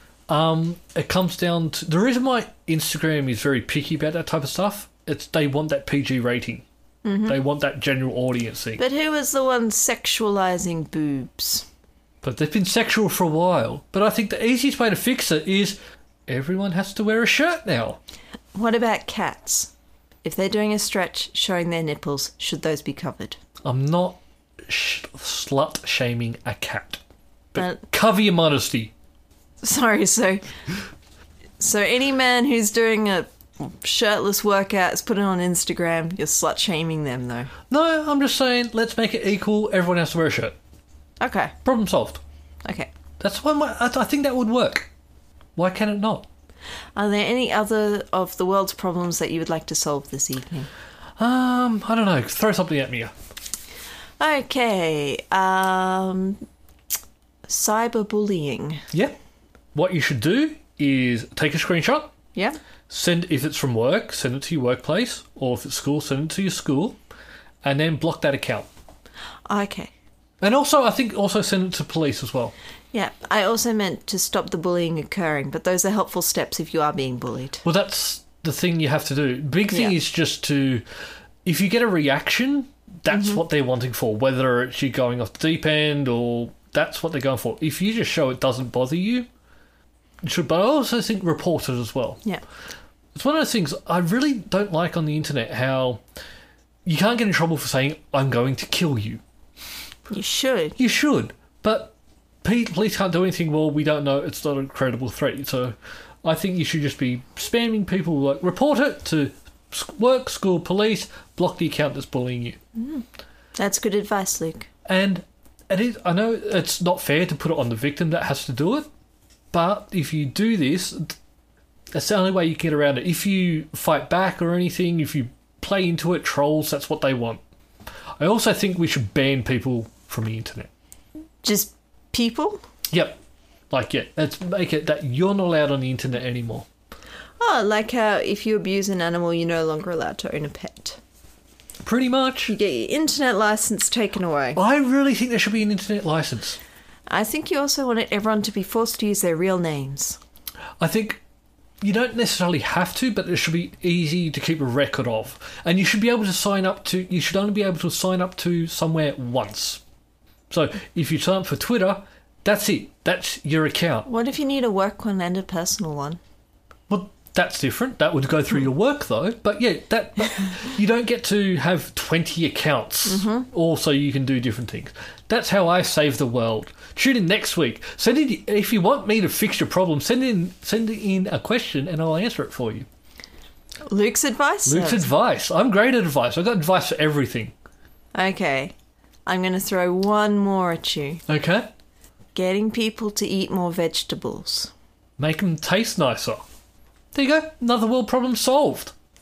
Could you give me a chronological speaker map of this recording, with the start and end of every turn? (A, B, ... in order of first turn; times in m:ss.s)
0:00.3-0:06.6 A
0:07.0-0:07.4 B
0:07.2-0:08.8 A
0:08.8-0:11.6 B
0:12.2-0:18.0 A
0:18.5-0:19.7 B
0:20.2-0:23.4 B
0:23.6-0:27.0 A
0:27.5-0:28.9 A
0:27.6-0:27.8 B
0:29.6-0:30.4 B
0:31.6-0:37.5 B
0:37.7-0:40.6 A
0:41.2-0:41.5 B
0:41.6-0:42.2 A
0:42.6-0:42.9 B
0:43.2-0:44.9 A
0:45.6-0:46.3 A
0:47.0-0:50.7 B
0:51.2-0:53.1 A
0:54.2-0:56.4 B
0:57.5-0:58.8 B
0:59.7-1:02.1 A
1:02.9-1:07.0 A
1:07.6-1:08.7 A
1:09.5-1:09.9 B
1:10.4-1:12.5 A
1:12.9-1:17.6 B
1:17.6-1:20.8 A
1:19.7-1:19.9 B
1:21.4-1:29.3 A
1:23.1-1:23.4 B
1:30.2-1:32.2 A
1:33.1-1:36.0 A
1:36.8-1:39.2 A
1:40.1-1:40.8 B
1:40.8-1:52.6 A
1:52.8-1:53.0 B
1:53.6-1:54.7 B
1:54.8-1:58.9 A
1:59.5-2:01.1 A
2:01.9-2:07.4 A
2:08.2-2:10.7 A
2:11.4-2:12.6 B
2:12.9-2:13.2 A
2:13.7-2:16.7 A
2:17.4-2:21.0 B
2:21.8-2:22.5 A
2:22.5-2:24.6 B
2:24.6-2:26.6 A
2:27.1-2:30.2 B
2:30.8-2:31.2 A
2:31.8-2:39.8 A
2:40.5-2:44.1 A
2:44.0-2:46.2 B
2:46.9-3:02.9 A
2:53.0-2:53.5 B
3:03.9-3:05.1 B
3:04.6-3:07.5 A
3:08.1-3:08.7 B
3:09.2-3:11.2 B
3:11.3-3:11.7 A
3:12.3-3:14.7 B
3:15.2-3:16.4 A
3:17.1-3:18.9 A